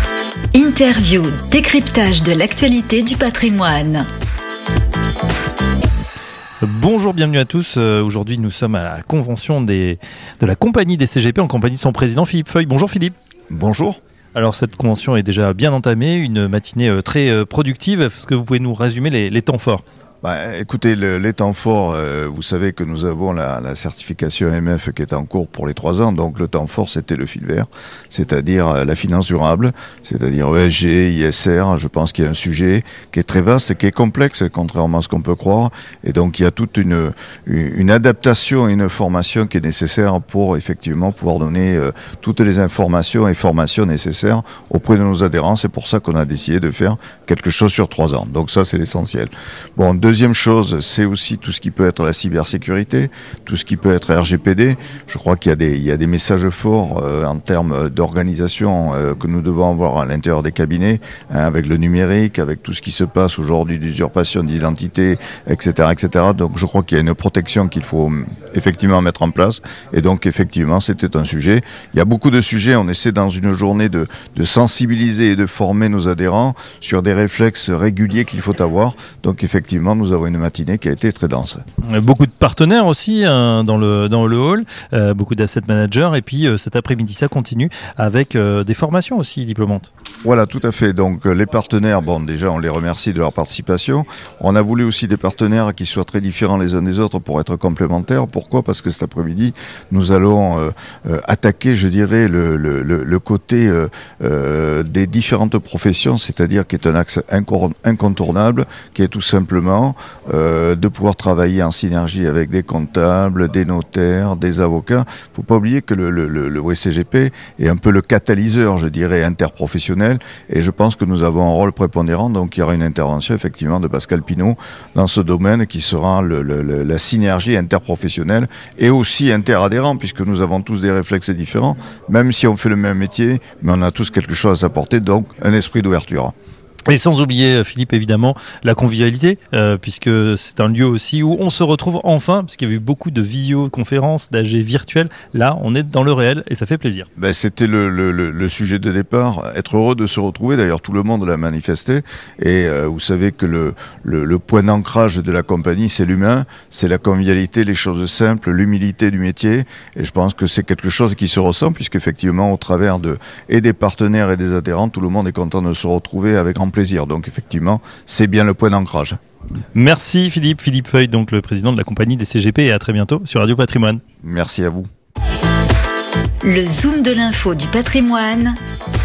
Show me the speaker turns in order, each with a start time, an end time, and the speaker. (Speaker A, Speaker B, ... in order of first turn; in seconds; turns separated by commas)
Speaker A: 0.5-4.1, Speaker B: 6.6-13.1, Speaker C: 13.5-14.0, Speaker B: 14.3-19.8, Speaker C: 20.2-81.6, Speaker B: 81.9-89.9, Speaker C: 90.2-136.3, Speaker B: 136.9-147.1, Speaker C: 147.2-169.2, Speaker B: 169.8-174.0, Speaker C: 174.2-174.9, Speaker A: 176.4-178.6